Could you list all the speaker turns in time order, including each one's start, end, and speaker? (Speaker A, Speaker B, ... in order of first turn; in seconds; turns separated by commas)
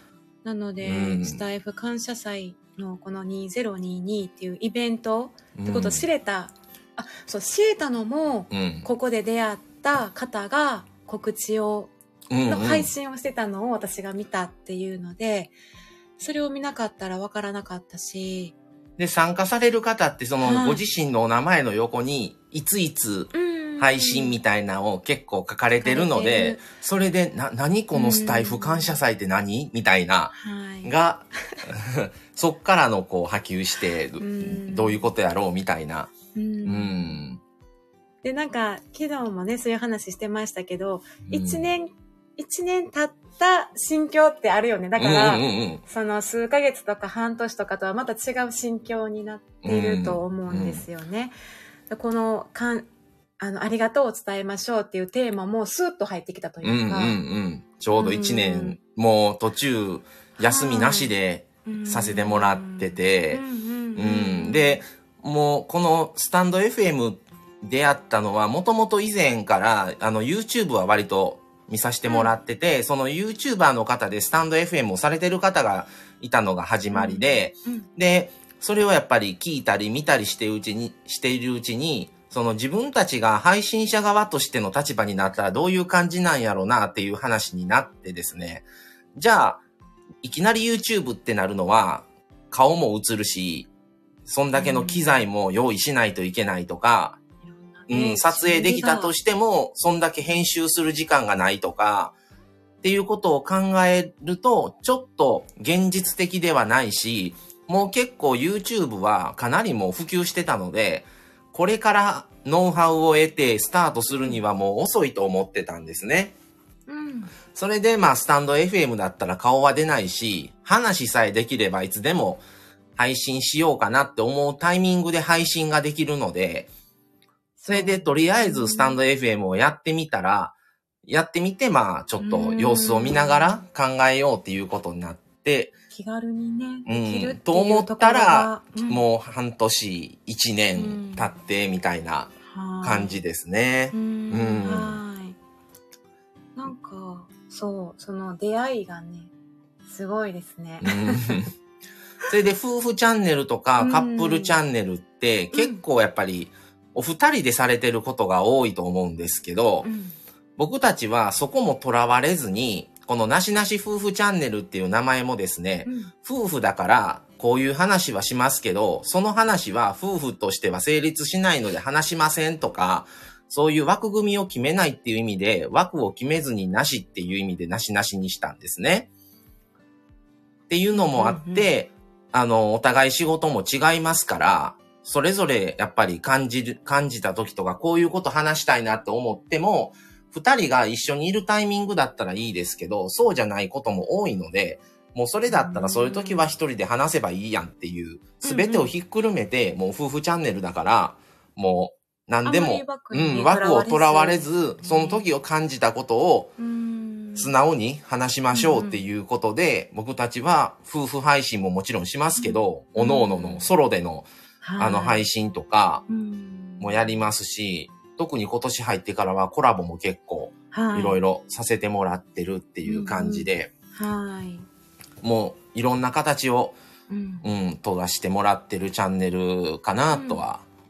Speaker A: 0.4-11.9, Speaker B: 0.8-1.4, Speaker B: 5.5-6.1, Speaker B: 8.5-8.9, Speaker B: 12.3-12.9, Speaker A: 12.5-15.5, Speaker A: 16.2-18.6, Speaker B: 19.0-30.3, Speaker A: 20.4-20.8, Speaker A: 23.3-24.4, Speaker A: 25.8-26.6, Speaker A: 27.9-29.0, Speaker A: 30.4-30.9, Speaker B: 30.8-36.1, Speaker A: 34.2-35.1, Speaker A: 36.3-37.2, Speaker B: 36.6-37.4, Speaker A: 38.2-51.3, Speaker B: 41.3-41.7, Speaker B: 45.0-45.8, Speaker B: 49.6-50.9, Speaker A: 51.9-52.9, Speaker A: 53.4-57.2, Speaker B: 56.6-63.4, Speaker A: 57.9-58.8, Speaker A: 60.4-61.1, Speaker A: 61.6-64.8, Speaker B: 64.0-89.6, Speaker A: 72.0-72.3, Speaker A: 76.9-77.9, Speaker B: 90.2-93.7, Speaker B: 94.3-97.2, Speaker A: 94.5-95.2, Speaker A: 97.4-99.2, Speaker B: 97.9-102.1, Speaker B: 102.8-116.3, Speaker A: 116.9-117.3, Speaker B: 117.5-122.4, Speaker B: 123.0-126.7, Speaker A: 127.6-129.0, Speaker B: 127.7-135.8, Speaker A: 132.2-133.6, Speaker A: 135.9-139.0, Speaker B: 136.9-145.0, Speaker A: 140.8-141.3, Speaker A: 142.4-143.2, Speaker A: 143.9-145.4, Speaker A: 146.6-149.3, Speaker A: 149.8-151.4, Speaker B: 150.8-151.5, Speaker B: 152.3-159.9, Speaker A: 153.8-154.6, Speaker A: 155.5-155.8, Speaker A: 159.8-160.2, Speaker B: 160.6-179.1, Speaker A: 165.8-166.1, Speaker B: 180.7-206.5, Speaker A: 180.9-181.7, Speaker A: 195.5-196.5, Speaker A: 198.4-198.9, Speaker A: 202.4-205.3, Speaker A: 206.6-207.5, Speaker B: 207.4-216.1, Speaker A: 208.5-209.0, Speaker A: 212.4-213.7, Speaker A: 214.6-215.3, Speaker A: 216.1-217.2, Speaker B: 216.8-223.7, Speaker A: 220.7-221.2, Speaker A: 222.8-224.7, Speaker B: 225.2-226.8, Speaker A: 227.1-227.5, Speaker B: 227.4-230.6, Speaker A: 230.1-230.4